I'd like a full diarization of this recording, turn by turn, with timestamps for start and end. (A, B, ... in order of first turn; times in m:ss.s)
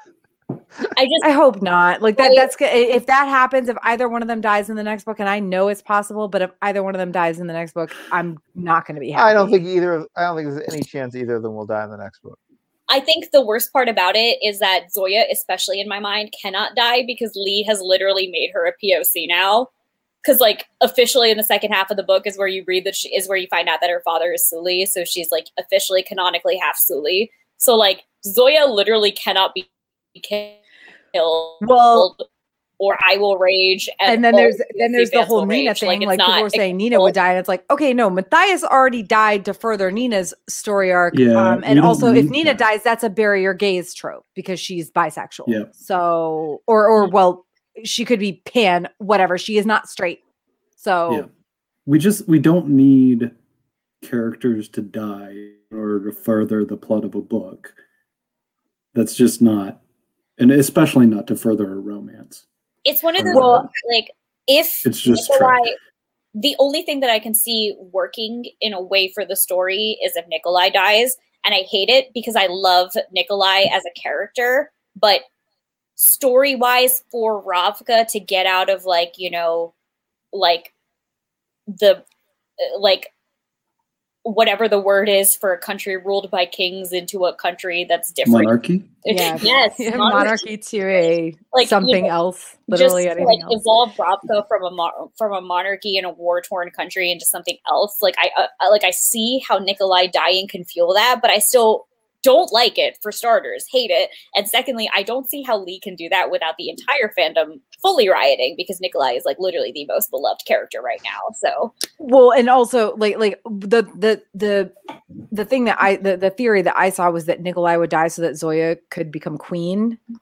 0:00.9-0:01.3 A
0:01.2-0:09.6 B
0:02.2-0:02.5 A
0:09.2-0:12.4 C
0:12.9-0:19.7 A
0:20.2-0:30.6 A
0:31.1-0:32.2 A
0:31.6-0:32.1 B
0:32.8-0:37.1 A
0:34.1-0:50.2 B
0:41.1-0:42.6 D
0:50.8-0:51.3 B
0:51.9-0:53.3 D
0:54.0-0:57.7 D
0:58.9-0:59.8 D
1:00.4-1:02.4 D
1:02.8-1:05.8 A
1:03.2-1:03.7 D
1:04.8-1:05.6 D
1:06.4-1:15.2 A
1:16.0-1:19.7 A
1:20.3-1:20.7 A
1:21.7-1:22.0 A
1:22.6-1:23.1 A
1:24.2-1:28.5 A
1:28.3-1:28.9 D
1:29.0-1:30.4 A
1:29.1-1:33.6 B
1:31.5-1:32.1 A
1:32.7-1:51.7 A
1:52.0-1:54.7 B
1:55.3-2:00.0 B